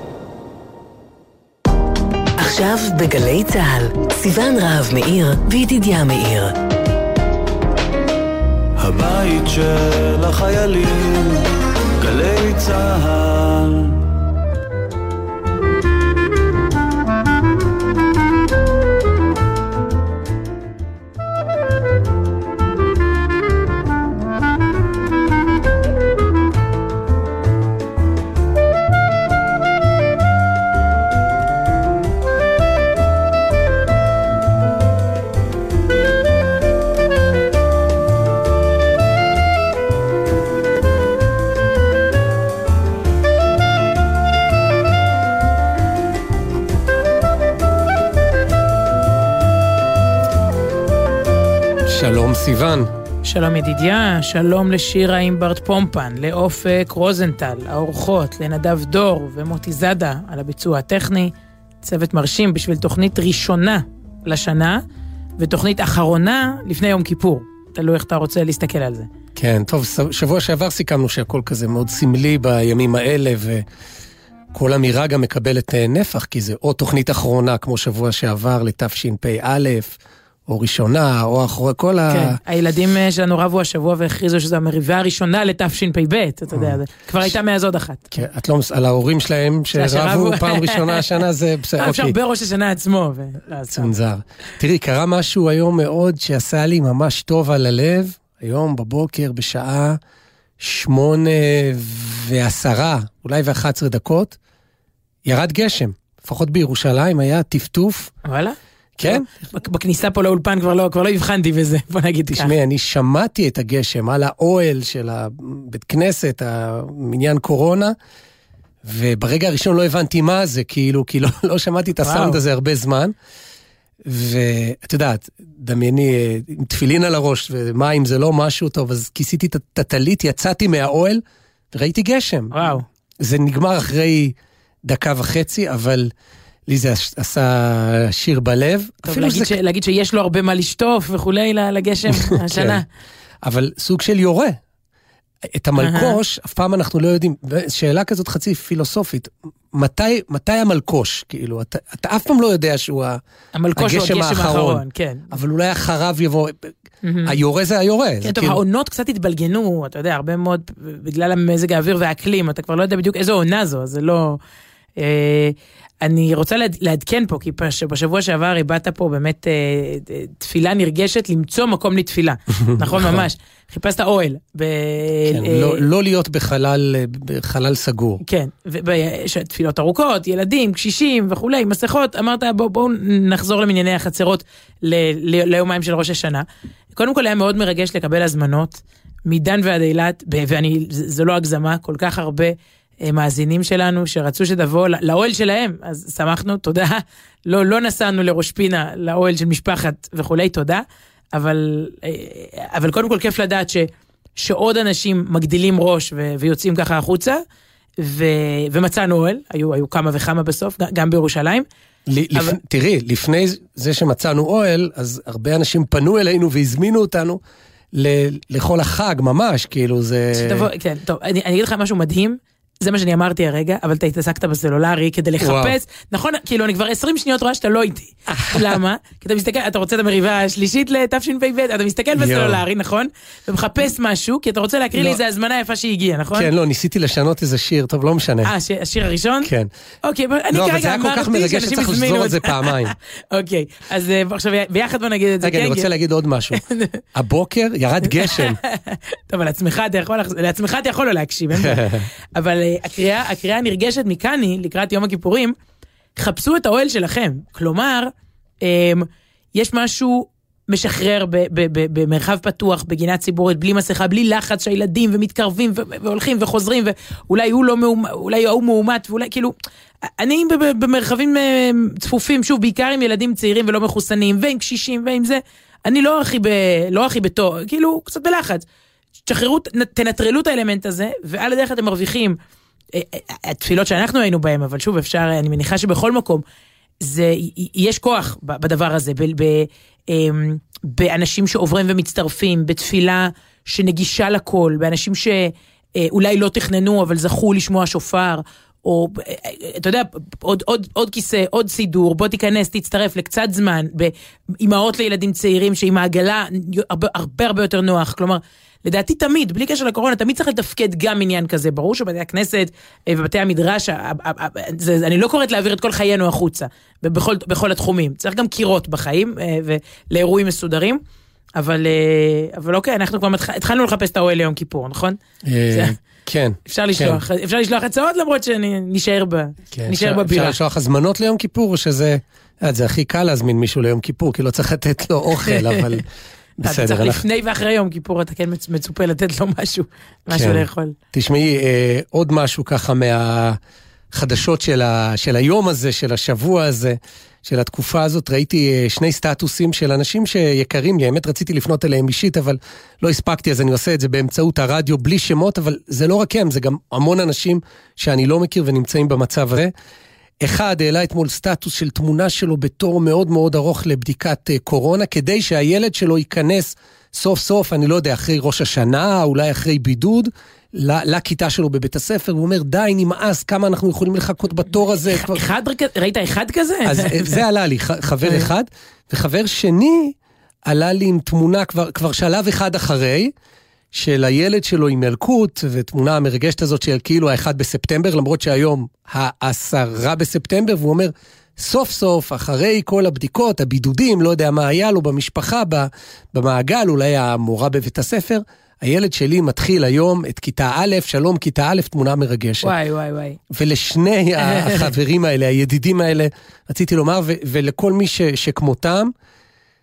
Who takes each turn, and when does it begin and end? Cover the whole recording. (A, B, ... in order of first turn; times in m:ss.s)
0:02.4-0:06.5 A
0:08.8-0:11.4 B
0:12.0-0:13.8 B
0:51.8-0:52.9 C
0:53.2-1:04.8 D
1:05.4-1:09.1 D
1:09.4-1:13.6 C
1:14.5-1:22.4 C
1:22.1-1:28.1 D
1:26.5-1:27.3 C
1:28.1-1:32.2 C
1:29.7-1:31.0 D
1:31.8-1:33.9 D
1:33.7-1:40.0 C
1:40.6-1:44.3 C
1:45.2-1:48.1 C
1:48.2-1:52.5 D
1:49.0-1:49.3 C
1:52.3-1:58.0 C
1:58.8-2:03.1 C
2:02.0-2:02.4 D
2:04.0-2:16.1 C
2:12.5-2:12.8 D
2:16.7-2:19.6 C
2:19.0-2:22.8 D
2:22.1-2:22.8 C
2:23.4-2:24.6 C
2:25.5-2:33.2 C
2:25.8-2:26.2 D
2:33.5-2:35.3 D
2:33.7-2:36.7 C
2:37.0-2:37.3 D
2:37.2-2:38.6 C
2:38.2-2:44.4 D
2:45.0-2:55.8 D
2:52.6-2:53.3 C
2:55.3-2:58.2 C
2:58.2-3:27.4 D
3:28.0-3:31.6 D
3:32.1-3:37.4 C
3:37.9-3:40.7 C
3:40.3-3:56.5 D
3:45.4-3:45.8 C
3:48.3-3:48.7 C
3:52.2-3:52.6 C
3:54.9-3:55.2 C
3:56.3-3:58.5 C
3:58.4-3:59.5 D
3:59.4-3:59.7 C
4:00.0-4:05.9 D
4:00.5-4:02.9 C
4:05.4-4:06.6 C
4:06.5-4:07.0 D
4:07.1-4:08.6 C
4:08.1-4:15.5 D
4:11.5-4:12.1 C
4:16.2-4:18.1 D
4:18.6-4:29.5 D
4:30.2-4:38.6 D
4:39.3-4:42.4 D
4:42.9-4:46.4 D
4:47.0-5:21.0 D
5:21.6-5:25.2 D
5:25.4-5:27.2 C
5:26.7-5:30.6 D
5:29.7-5:36.0 C
5:35.5-5:35.8 D
5:36.6-5:37.2 C
5:36.6-5:40.9 D
5:40.3-5:43.6 C
5:44.1-5:59.7 C
6:00.4-6:15.4 C
6:15.0-6:17.4 D
6:16.8-6:23.3 C
6:23.9-6:42.7 C
6:42.6-6:43.4 D
6:43.5-6:49.1 C
6:44.4-6:44.9 D